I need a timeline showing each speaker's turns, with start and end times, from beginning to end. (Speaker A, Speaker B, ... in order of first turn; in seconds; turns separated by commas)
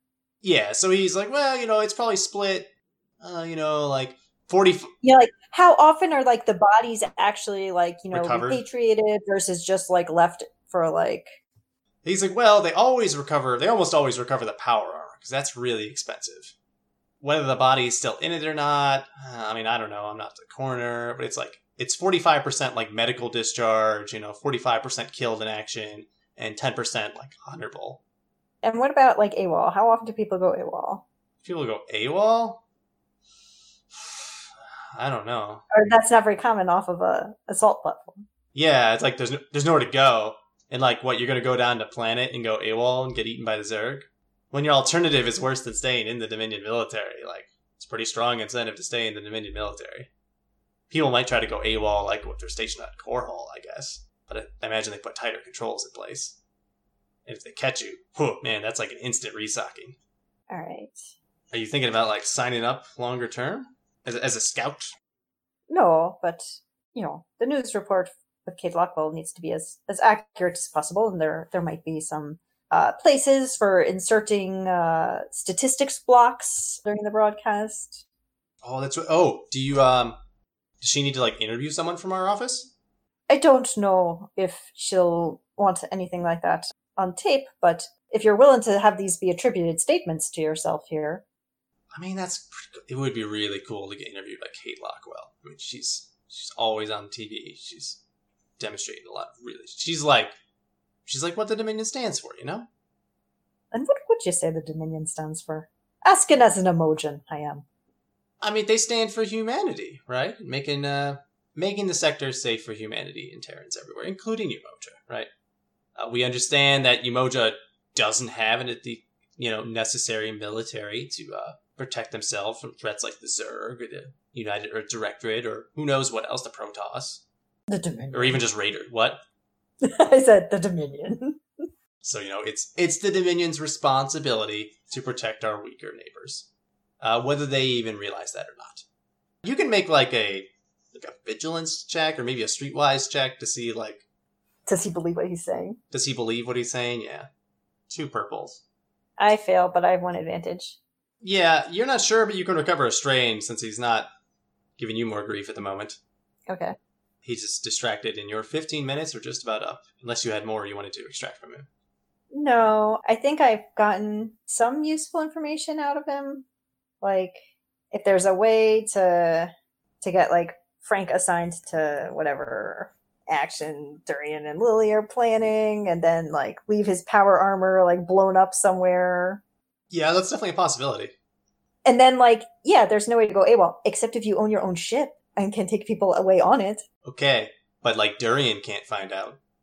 Speaker A: 0.4-2.7, Speaker A: 3.2-4.9, Speaker B: 5.0-11.4, Speaker A: 8.1-8.6, Speaker A: 12.0-16.5, Speaker A: 17.2-28.0, Speaker B: 28.6-31.0, Speaker A: 31.4-32.6, Speaker A: 33.9-35.6, Speaker B: 35.7-38.3, Speaker A: 38.5-50.1, Speaker A: 50.9-56.4, Speaker A: 57.3-60.0, Speaker B: 60.5-61.1, Speaker A: 61.5-65.0, Speaker B: 65.7-78.0, Speaker A: 78.6-80.2, Speaker A: 80.8-82.7, Speaker B: 83.3-91.2, Speaker A: 91.9-98.0, Speaker A: 98.6-100.3, Speaker A: 101.1-102.7, Speaker B: 103.7-107.7, Speaker A: 108.4-115.3, Speaker A: 116.0-127.2, Speaker B: 127.7-128.4, Speaker A: 128.1-129.2, Speaker B: 129.8-131.4, Speaker A: 132.0-136.5, Speaker A: 137.0-138.8, Speaker A: 139.4-144.0, Speaker B: 144.7-145.8, Speaker A: 145.9-147.3, Speaker A: 147.9-148.6, Speaker B: 149.2-150.8, Speaker A: 151.2-154.1, Speaker A: 154.8-156.0, Speaker B: 156.5-156.8, Speaker A: 157.2-161.7, Speaker B: 162.3-166.4, Speaker B: 167.0-179.4, Speaker A: 179.9-181.1, Speaker B: 181.8-186.9, Speaker A: 187.1-189.4